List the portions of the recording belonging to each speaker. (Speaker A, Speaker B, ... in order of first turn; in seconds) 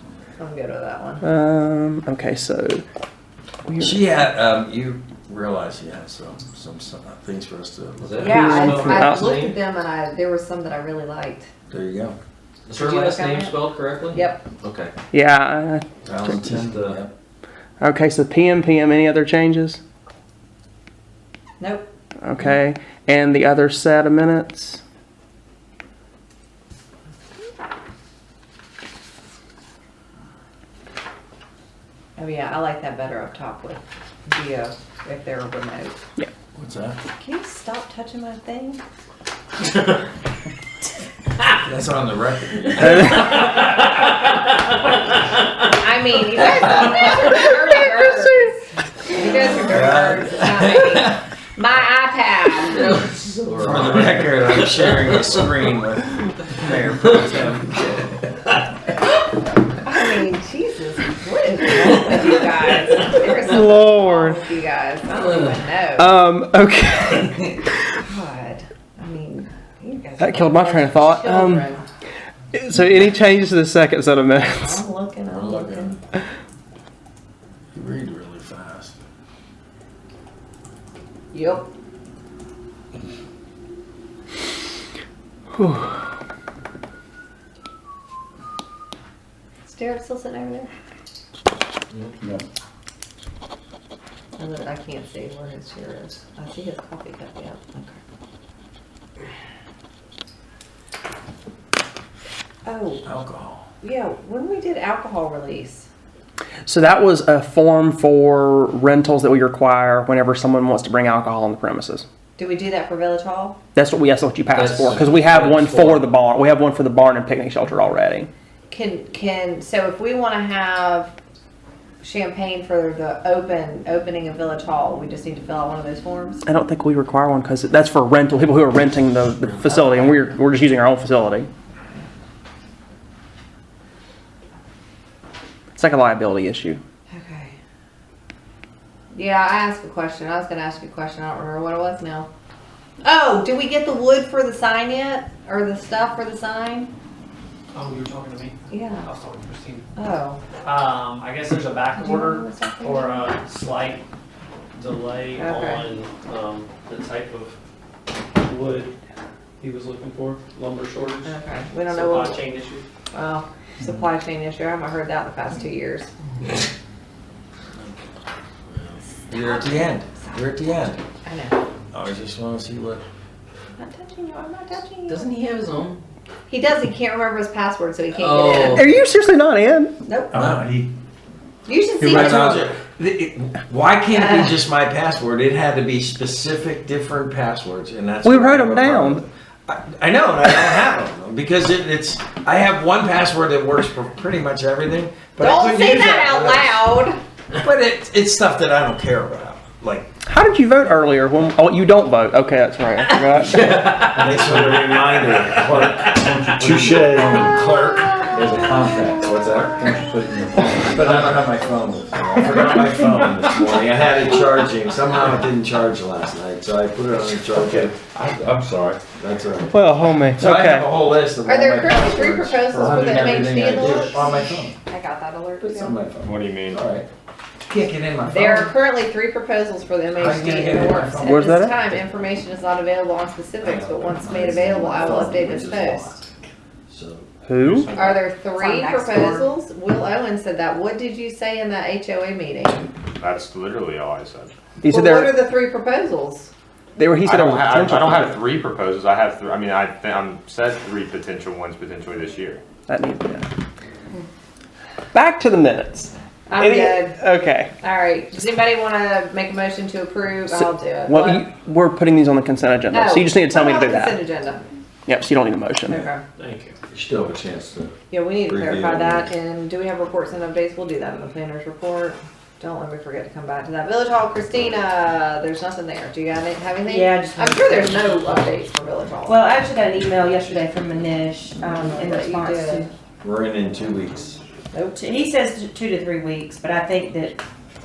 Speaker A: 0.4-1.2, 8.2-11.5, 12.8-13.6, 14.1-14.4, 21.6-21.9, 32.2-36.0, 37.2-38.8, 45.6-53.0, 59.8-66.2, 68.0-71.9, 74.5-76.0, 81.3-81.7, 89.6-90.7, 94.4-98.0, 102.6-103.0, 103.8-105.9, 112.4-113.6, 118.7-121.1, 122.0-126.4, 129.7-130.2, 137.1-137.5, 139.1-142.3, 143.0-146.9, 148.7-149.1, 149.9-150.4, 151.9-153.2, 155.3-155.9, 161.2-162.4, 163.1-166.1, 169.2-171.6, 173.8-175.3, 176.5-178.9, 180.1-180.3, 181.7-182.4, 184.1-184.6, 195.4-197.2, 221.4-226.0, 228.3-236.1, 237.9-242.9, 244.8-246.5, 256.5-257.2, 257.8-261.4, 262.9-264.6, 265.9-266.2, 268.1-279.4, 281.6-282.9, 284.7-285.0
Speaker B: 1.2-2.8, 3.7-4.0, 8.3-9.4, 15.1-15.8, 17.8-19.8, 22.2-24.8, 63.4-64.4, 66.0-67.5, 70.2-71.7, 72.5-74.8, 85.5-85.9, 106.7-112.0, 113.7-118.3, 126.5-131.5, 135.7-136.8, 178.6-179.9, 182.1-182.6, 188.2-189.2, 200.2-203.8, 219.7-220.8, 231.2-231.7, 237.4-237.9, 244.8-245.4, 247.0-248.4, 252.9-253.4, 255.1-257.7, 260.6-264.2, 265.1-266.1
Speaker C: 3.8-8.4, 11.7-12.2, 16.0-17.1, 36.5-37.0, 41.5-43.2, 49.6-51.2, 53.6-58.1, 75.3-76.0, 77.7-79.0, 103.0-103.7, 169.3-171.0, 171.9-173.0, 180.3-180.9, 182.0-196.8, 197.5-200.1, 203.7-208.3, 209.2-209.6, 210.8-217.9, 219.1-219.8, 220.3-224.7, 225.6-227.1, 227.7-228.7, 230.1-231.7, 233.6-236.2, 236.9-237.2, 266.9-267.9, 268.4-269.3, 283.2-284.4
Speaker D: 8.0-9.6, 12.7-14.9, 16.2-17.0, 42.9-44.4, 52.7-55.3, 65.1-65.5, 114.5-116.1, 168.7-169.0, 175.1-176.0, 178.1-178.9, 203.5-204.2
Speaker E: 147.7-149.8, 150.6-154.0, 154.8-157.5, 158.4-158.9, 159.6-161.3, 161.9-162.8, 266.4-266.7
Speaker F: 180.3-180.6, 204.3-204.8, 206.1-207.6, 208.3-212.4, 217.5-219.0, 222.7-224.1, 235.0-235.3
Speaker G: 226.2-226.8, 243.2-244.5, 247.2-252.6
Speaker H: 238.4-239.5, 276.9-278.3, 279.2-282.9, 284.9-287.4